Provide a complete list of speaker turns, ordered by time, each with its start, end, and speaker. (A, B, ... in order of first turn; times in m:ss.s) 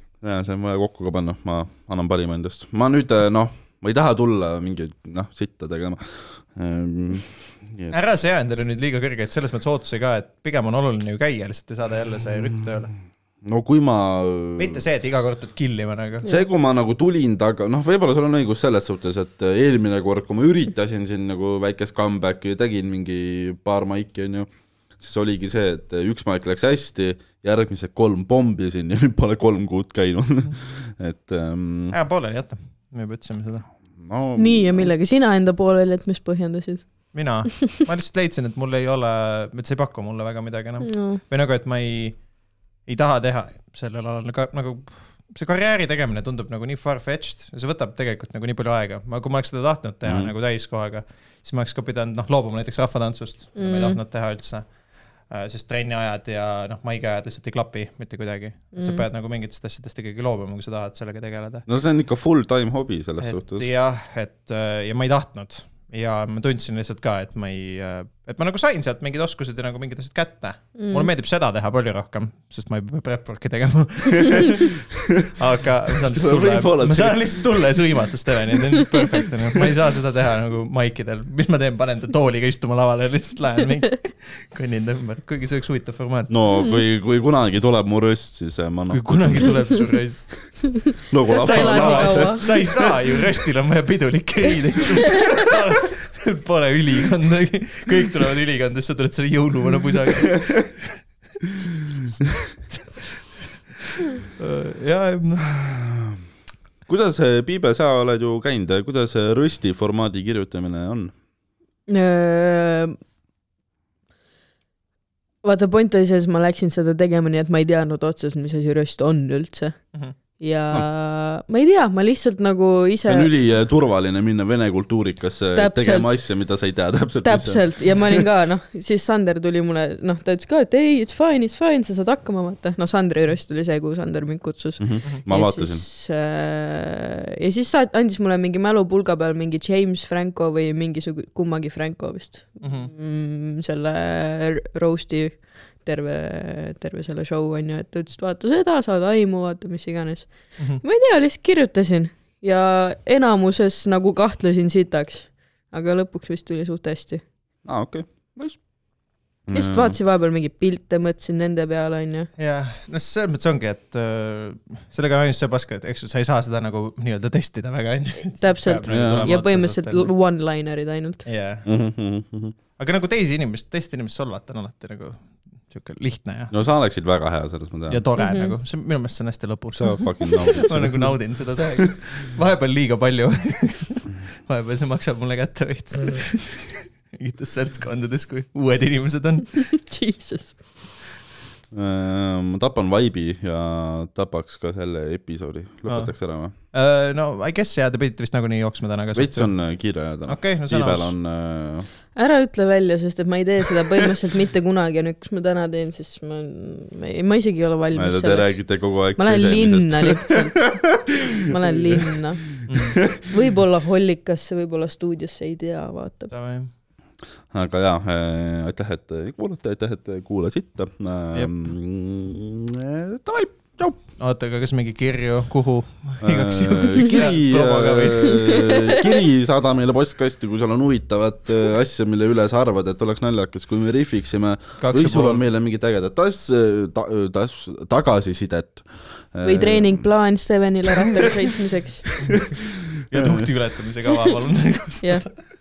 0:00.2-0:08.0 A
0:07.9-0:12.9 B
0:13.4-0:14.8 A
0:14.6-0:16.3 B
0:16.2-0:24.5 A
0:25.0-0:32.0 A
0:31.9-0:33.7 B
0:34.0-0:34.9 A
0:34.4-0:37.7 C
0:37.1-0:42.2 B
0:40.8-0:41.2 C
0:42.8-0:54.7 B
0:50.0-0:50.3 A
0:53.6-0:54.0 C
0:55.3-1:01.6 B
0:58.7-0:59.0 C
1:01.7-1:03.7 A
1:03.2-1:14.7 B
1:10.8-1:11.1 C
1:15.4-1:26.3 B
1:16.1-1:17.4 A
1:26.3-1:29.8 A
1:28.9-1:41.0 B
1:30.8-1:32.5 C
1:31.1-1:33.0 A
1:35.1-1:35.4 C
1:42.7-1:43.0 B
1:44.4-1:45.5 B
1:45.5-1:46.2 A
1:46.8-1:51.1 A
1:51.9-1:53.0 C
1:55.4-1:59.8 C
2:00.4-2:03.3 C
2:03.1-2:08.2 A
2:05.6-2:06.2 C
2:07.2-2:37.2 C
2:14.8-2:15.8 A
2:22.6-2:22.9 B
2:30.6-2:30.8 B
2:37.6-2:38.6 A
2:39.4-2:40.0 A
2:39.5-2:42.3 C
2:42.4-2:50.1 B
2:48.4-2:51.2 C
2:48.9-2:49.3 A
2:51.2-2:51.7 B
2:51.6-2:52.6 A
2:52.8-2:56.5 B
2:56.5-2:58.0 A
2:57.9-3:09.7 B
2:58.2-2:58.6 C
2:59.8-3:01.2 A
3:09.7-3:10.6 C
3:11.7-3:16.5 A
3:15.9-3:19.6 B
3:19.2-3:21.9 A
3:20.2-3:21.1 B
3:22.1-3:36.3 C
3:27.9-3:31.2 A
3:31.7-3:32.0 A
3:32.6-3:33.2 A
3:32.7-3:33.0 B
3:36.3-3:36.7 B
3:37.5-3:44.0 A
3:44.2-3:48.9 B
3:46.2-4:00.0 A
3:48.5-3:49.1 C
3:54.8-3:55.4 B
3:59.4-4:02.1 C
4:02.3-4:03.5 A
4:03.1-4:05.3 B
4:05.0-4:05.2 C